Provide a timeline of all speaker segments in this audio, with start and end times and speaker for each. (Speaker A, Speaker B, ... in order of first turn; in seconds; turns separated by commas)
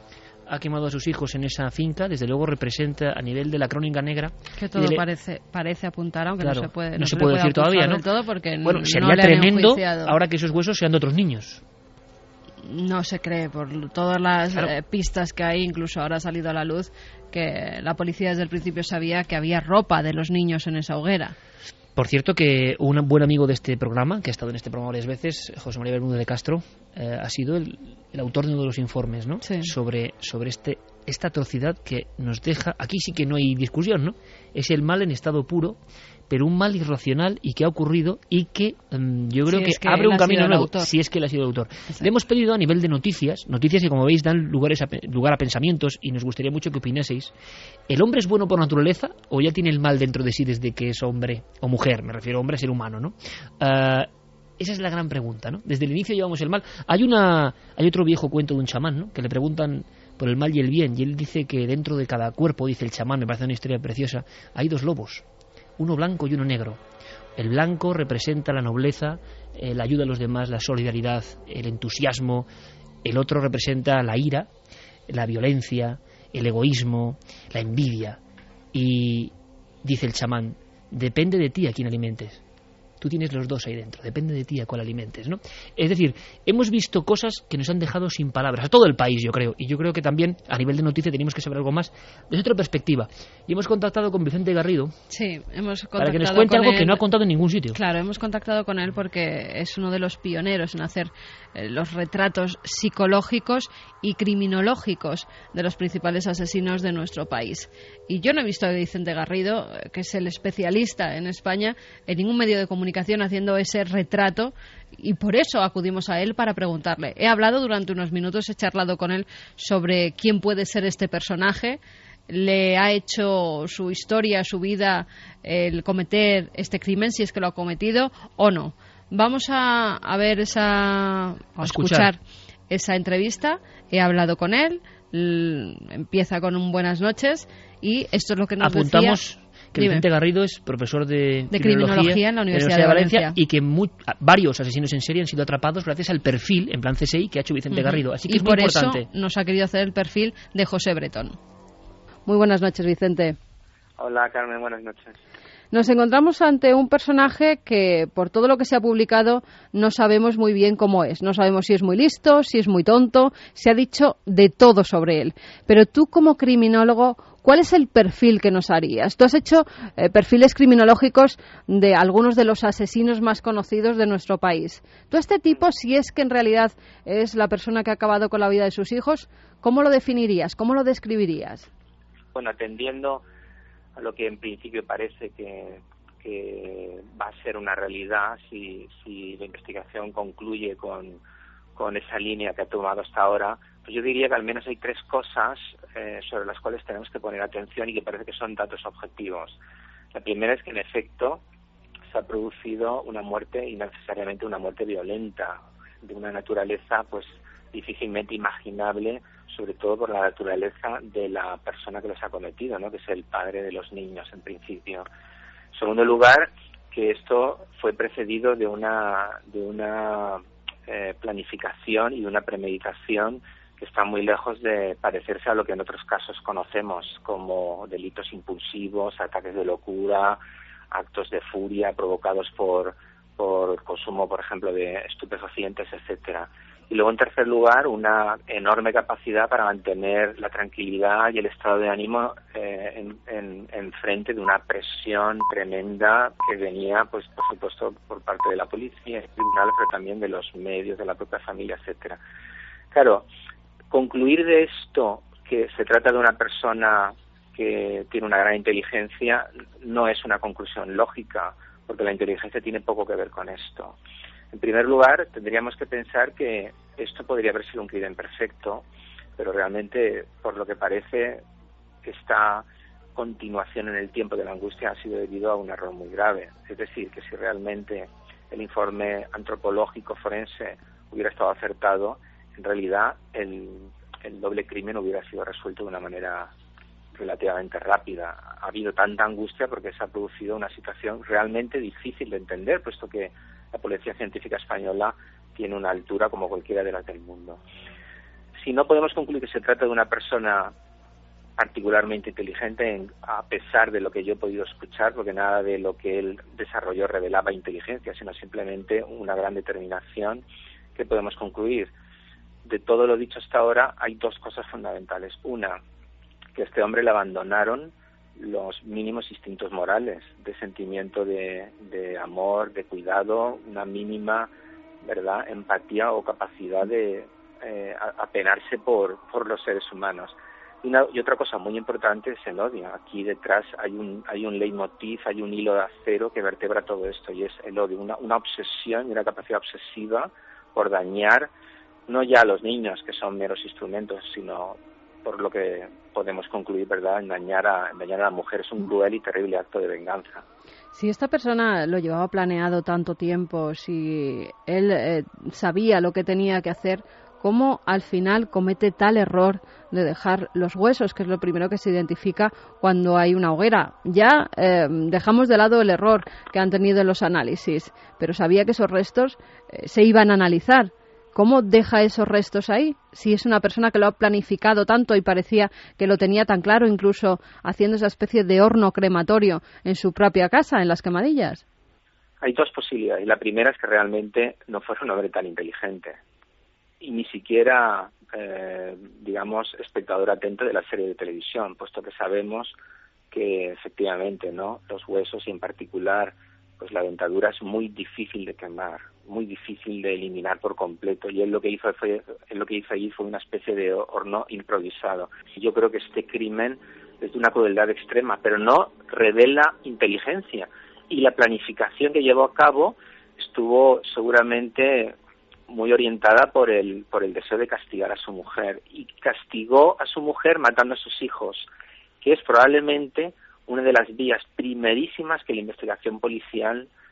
Speaker A: 0.5-5.0, Speaker B: 4.6-10.2, Speaker A: 6.4-8.0, Speaker A: 8.6-11.6, Speaker B: 12.7-21.3, Speaker A: 21.9-35.8, Speaker B: 29.4-29.7, Speaker A: 36.3-47.3, Speaker B: 39.5-40.9, Speaker A: 47.9-65.2, Speaker A: 65.8-66.8, Speaker A: 67.4-72.5, Speaker A: 73.0-74.5, Speaker A: 75.1-78.2, Speaker A: 78.7-79.3, Speaker A: 79.8-82.4, Speaker A: 83.0-94.9, Speaker B: 95.1-97.0, Speaker A: 96.0-97.8, Speaker B: 97.7-132.2, Speaker A: 131.6-132.1, Speaker B: 132.7-139.2, Speaker A: 138.6-149.0, Speaker B: 139.8-140.0, Speaker B: 141.5-143.3, Speaker B: 147.7-151.4, Speaker B: 152.2-153.4, Speaker C: 154.0-155.2, Speaker B: 155.7-181.7, Speaker C: 182.3-183.2, Speaker C: 183.9-191.2, Speaker C: 191.8-199.6, Speaker C: 200.1-201.4, Speaker C: 202.1-215.1, Speaker C: 215.7-230.4, Speaker C: 230.9-252.2, Speaker C: 252.9-253.2, Speaker C: 253.9-263.9, Speaker C: 264.5-268.8, Speaker C: 269.4-271.4, Speaker C: 272.0-286.5, Speaker C: 287.1-297.6, Speaker C: 298.6-300.7, Speaker C: 301.6-310.4, Speaker C: 310.9-311.9, Speaker C: 312.6-315.8, Speaker C: 316.5-324.5, Speaker C: 325.0-341.5, Speaker C: 342.1-350.4, Speaker B: 350.9-381.6, Speaker C: 382.4-386.2, Speaker C: 387.0-392.7, Speaker C: 393.3-415.1, Speaker C: 415.7-421.7, Speaker C: 422.2-426.9